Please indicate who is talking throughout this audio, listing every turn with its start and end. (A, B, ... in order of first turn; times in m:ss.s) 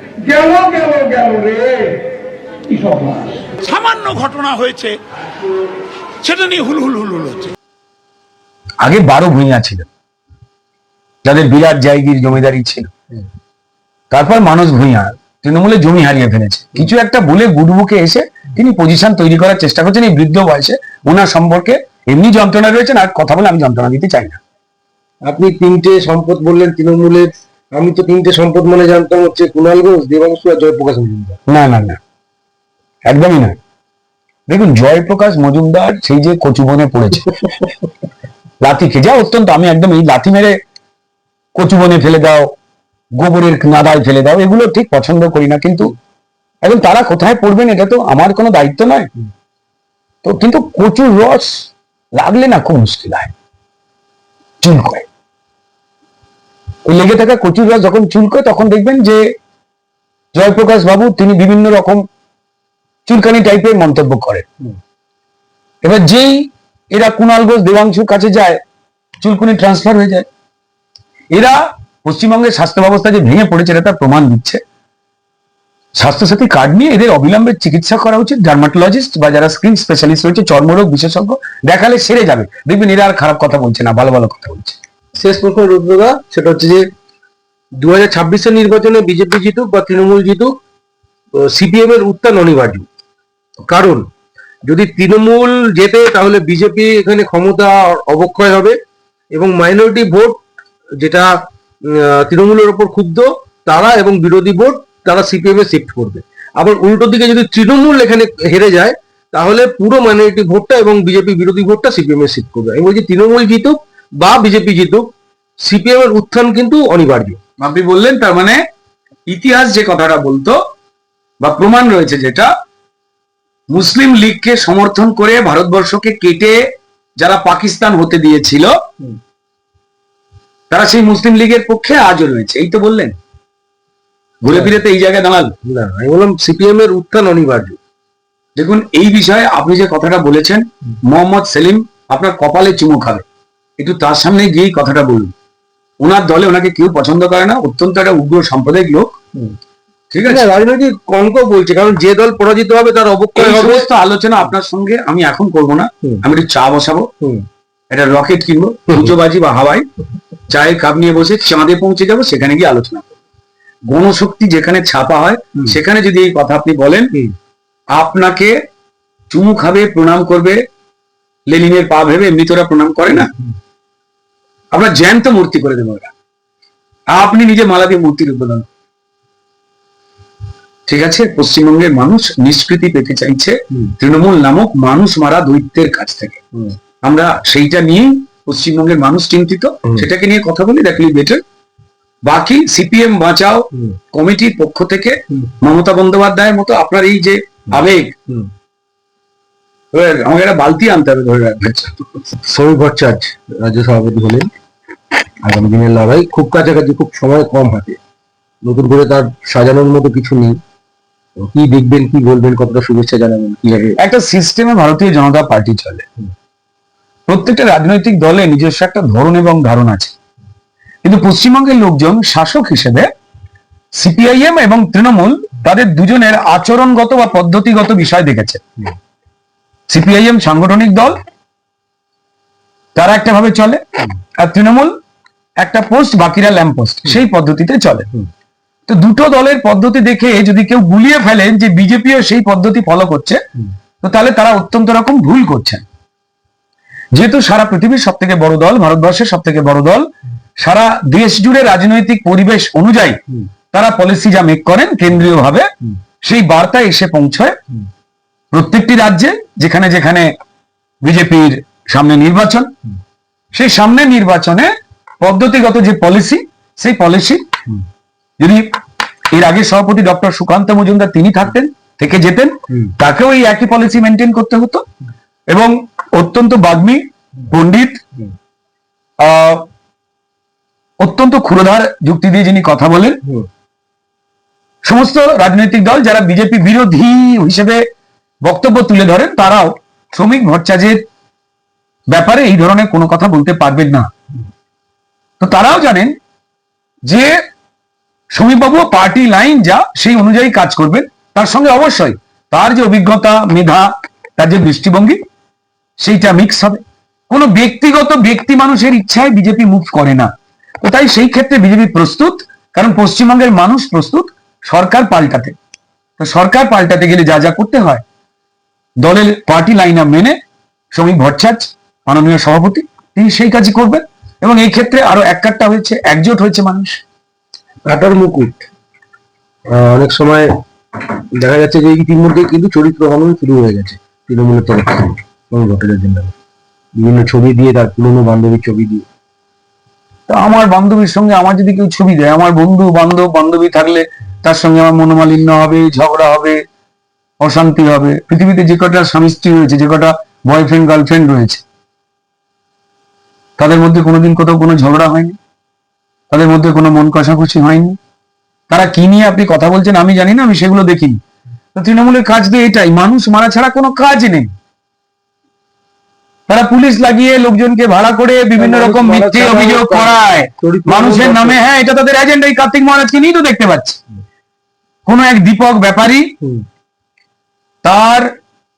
0:00.2-0:02.0 A
0:02.7-0:03.3 A
0:03.4-0:05.0 B
0:06.2-0:07.5 B
0:08.8-0:09.9 C
0:11.2-0:12.9 C
0:14.1-0:24.4 C
0:25.2-0:31.4 D
0:31.5-0:32.0 C
0:33.0-0:33.6 C
0:34.5-0:37.3 C
0:38.6-0:40.6 C
0:41.6-0:42.5 C
0:43.2-0:45.9 C
0:46.6-0:49.1 C
0:50.2-0:53.3 C
0:54.6-0:55.0 C
0:56.8-0:59.2 C
1:00.3-1:02.0 C
1:03.0-1:04.4 C
1:05.8-1:08.6 C
1:09.2-1:10.3 C
1:11.3-1:14.6 C
1:16.0-1:24.8 C
1:25.2-1:26.8 D
1:27.8-1:30.5 D
1:31.4-1:32.9 D
1:33.7-1:34.0 D
1:34.6-1:38.8 D
1:39.3-1:40.4 D
1:41.0-1:41.3 D
1:41.9-1:55.1 D
1:55.6-1:57.4 D
1:57.6-1:58.6 C
1:59.3-2:00.6 C
2:01.4-2:02.5 C
2:03.7-2:06.6 C
2:07.2-2:08.7 C
2:10.7-2:13.1 C
2:14.4-2:15.5 C
2:14.5-2:14.8 D
2:15.6-2:17.8 D
2:18.6-2:23.2 C
2:23.8-2:25.3 C
2:26.0-2:29.1 C
2:30.1-2:30.5 C
2:30.2-2:33.9 D
2:33.4-2:37.1 C
2:37.9-2:39.8 C
2:40.5-2:43.1 C
2:43.9-2:47.1 C
2:47.9-2:48.5 C
2:49.3-2:50.6 C
2:51.5-2:53.3 C
2:54.7-2:56.1 C
2:57.1-2:58.7 C
3:00.9-3:06.4 C
3:07.0-3:11.4 C
3:12.2-3:18.1 C
3:19.9-3:22.2 C
3:22.4-3:24.5 D
3:25.4-3:28.0 D
3:28.6-3:30.6 D
3:31.5-3:34.0 D
3:34.0-3:36.0 C
3:37.3-3:40.1 C
3:41.0-3:43.1 C
3:44.0-3:48.6 C
3:49.9-3:51.2 C
3:52.9-3:53.8 C
3:54.4-3:54.9 C
3:55.6-3:58.1 C
3:58.9-4:03.4 C
4:04.0-4:05.8 C
4:07.1-4:10.0 C
4:10.6-4:13.2 C
4:13.7-4:15.7 C
4:16.2-4:17.6 C
4:18.5-4:20.3 C
4:21.0-4:22.7 C
4:23.5-4:24.7 C
4:25.2-4:27.4 C
4:28.4-4:28.7 C
4:29.3-4:34.8 C
4:35.5-4:38.0 C
4:39.2-4:39.6 C
4:41.0-4:43.2 C
4:44.8-4:47.8 C
4:48.4-4:51.0 C
4:52.1-4:54.1 C
4:55.4-4:56.1 C
4:57.0-4:57.4 C
4:58.3-5:05.2 C
5:06.0-5:10.3 C
5:10.8-5:15.5 C
5:16.2-5:18.0 C
5:19.0-5:20.4 C
5:20.9-5:27.0 C
5:27.9-5:28.6 D
5:29.7-5:30.5 D
5:31.4-5:36.3 D
5:37.0-5:39.0 D
5:40.3-5:46.6 C
5:47.4-5:51.6 C
5:53.6-5:55.4 C
5:56.3-5:58.0 C
5:58.7-6:01.2 C
6:01.7-6:04.5 C
6:06.5-6:14.0 C
6:08.6-6:11.6 D
6:15.0-6:16.3 C
6:17.8-6:18.3 C